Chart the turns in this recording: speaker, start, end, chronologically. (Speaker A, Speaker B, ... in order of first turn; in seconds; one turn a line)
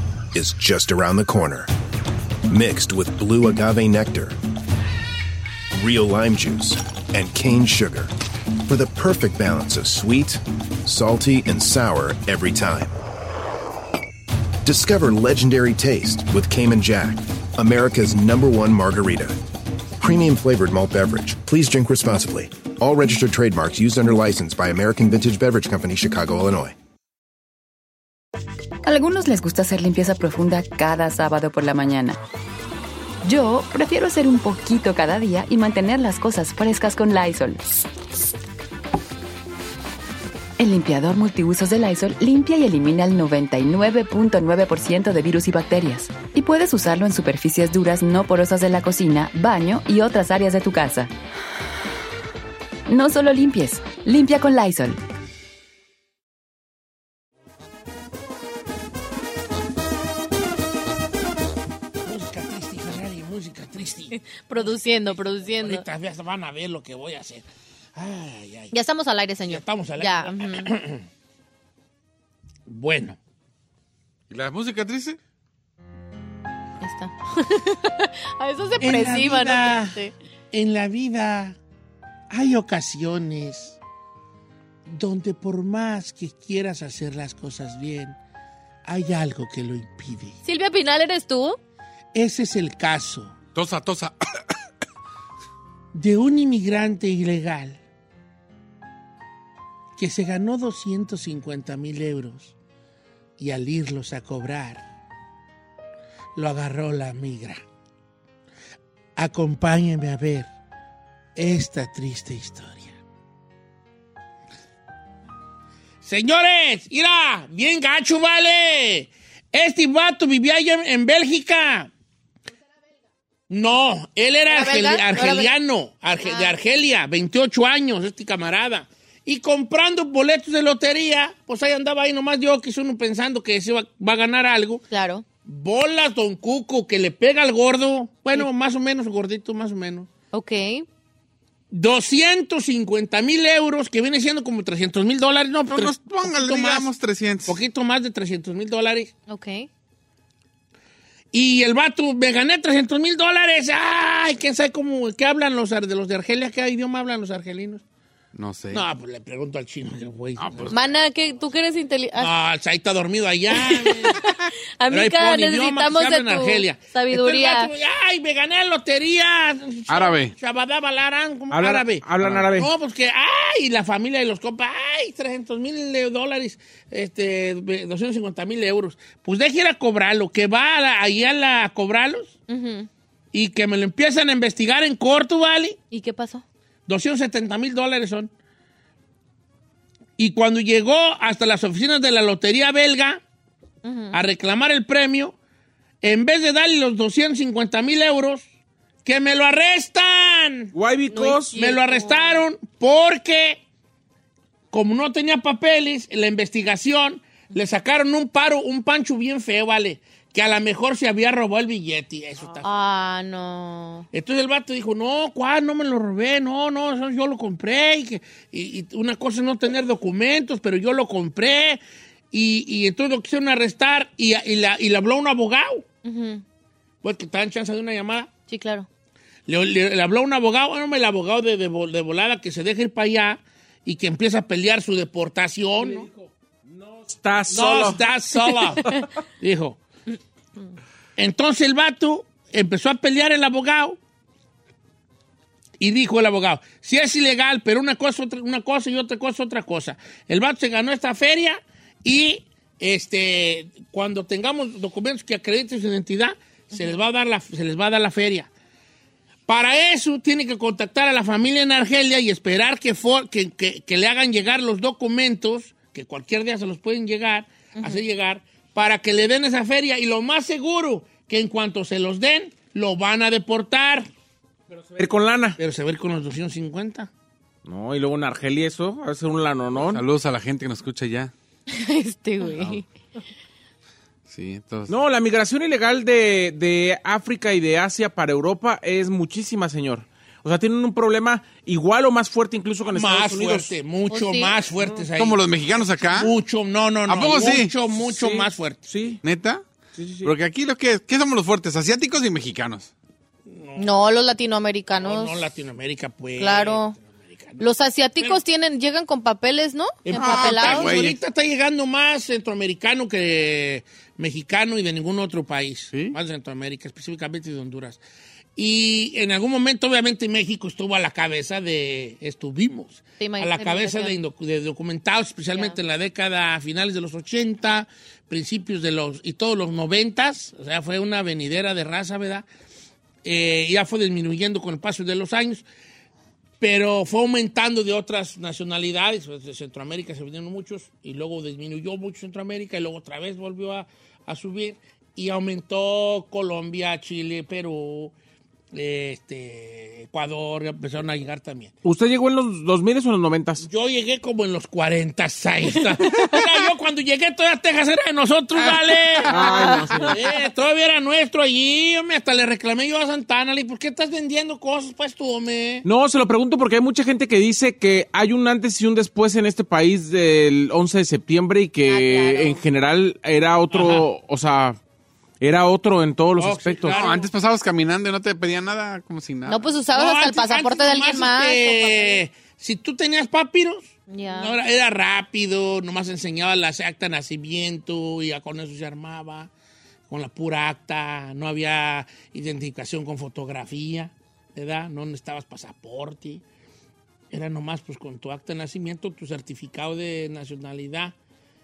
Speaker A: 0.3-1.7
Speaker A: 2.5-4.4
Speaker A: 5.8-12.9
Speaker A: 14.6-19.4
Speaker A: 20.0-26.7
Speaker B: 28.8-32.2
Speaker B: 33.2-37.8
Speaker B: 40.6-51.1
Speaker B: 52.9-55.0
Speaker C: 62.0-67.5
Speaker D: 64.3-65.8
Speaker C: 68.0-68.7
Speaker D: 68.7-70.7
Speaker C: 69.5-71.0
Speaker C: 72.7-73.2
Speaker E: 74.3-75.2
Speaker D: 76.8-80.1
Speaker C: 78.8-80.0
Speaker C: 80.5-81.6
Speaker C: 82.3-83.8
Speaker C: 84.9-88.2
Speaker C: 88.9-90.4
Speaker D: 90.5-91.6
Speaker C: 92.2-93.3
Speaker E: 93.5-94.1
Speaker C: 95.9-97.8
Speaker C: 100.0-102.5
Speaker C: 103.4-104.8
Speaker C: 106.4-107.6
Speaker C: 109.2-110.5
Speaker C: 111.4-113.0
Speaker C: 116.0-121.9
Speaker C: 123.5-134.8
Speaker D: 124.5-125.5
Speaker D: 126.2-126.5
Speaker D: 134.9-135.2
Speaker C: 135.4-140.1
Speaker D: 140.3-140.9
Speaker C: 141.7-146.9
Speaker E: 145.7-147.6
Speaker C: 147.5-149.1
Speaker D: 149.3-149.7
Speaker C: 151.3-157.8
Speaker E: 158.3-158.8
Speaker C: 158.7-160.7
Speaker E: 160.4-160.9
Speaker D: 160.7-162.3
Speaker C: 162.2-164.2
Speaker D: 163.5-167.7
Speaker C: 164.9-182.3
Speaker E: 169.9-170.3
Speaker F: 171.5-172.7
Speaker D: 182.5-182.9
Speaker C: 183.3-185.8
Speaker D: 185.9-186.4
Speaker C: 186.9-188.3
Speaker C: 190.2-193.2
Speaker D: 193.8-194.2
Speaker C: 194.1-195.4
Speaker C: 196.0-198.4
Speaker C: 199.1-200.7
Speaker F: 200.7-201.6
Speaker D: 201.1-202.4
Speaker C: 201.5-203.6
Speaker C: 204.7-212.7
Speaker D: 212.6-214.1
Speaker C: 214.1-221.8
Speaker C: 222.3-225.8
Speaker D: 226.1-226.4
Speaker C: 227.0-228.3
Speaker D: 228.5-228.9
Speaker C: 229.5-236.1
Speaker F: 235.8-238.0
Speaker C: 237.5-238.9
Speaker C: 239.4-239.8
Speaker C: 241.2-244.0
Speaker C: 245.8-258.5
Speaker C: 259.5-274.1
Speaker D: 267.8-268.0
Speaker F: 274.9-275.6
Speaker C: 275.6-277.1
Speaker F: 277.6-280.0
Speaker E: 279.7-281.3
Speaker D: 281.7-282.8
Speaker E: 282.4-282.8
Speaker E: 284.3-285.0
Speaker F: 284.9-293.7
Speaker C: 292.9-295.4
Speaker D: 294.1-294.5
Speaker E: 295.1-296.3
Speaker C: 296.2-298.9
Speaker E: 297.1-297.7
Speaker F: 298.0-299.2
Speaker E: 299.2-299.6
Speaker F: 299.9-300.3
Speaker E: 300.2-302.9
Speaker C: 303.5-304.0
Speaker D: 303.8-305.4
Speaker C: 305.0-307.6
Speaker D: 306.4-306.9
Speaker D: 307.6-310.9
Speaker C: 310.0-318.0
Speaker E: 310.1-311.2
Speaker C: 318.6-332.5
Speaker D: 323.2-324.1
Speaker C: 333.2-335.6
Speaker C: 336.6-348.1
Speaker C: 348.7-351.7
Speaker F: 351.8-353.6
Speaker C: 353.6-365.9
Speaker E: 358.6-359.8
Speaker F: 359.3-360.1
Speaker F: 365.8-374.8
Speaker D: 371.9-372.6
Speaker C: 373.7-374.1
Speaker F: 375.4-377.0
Speaker C: 376.4-377.3
Speaker E: 376.9-379.6
Speaker D: 379.5-382.2
Speaker C: 379.9-389.5
Speaker D: 384.1-384.6
Speaker C: 390.1-396.4
Speaker C: 397.3-401.1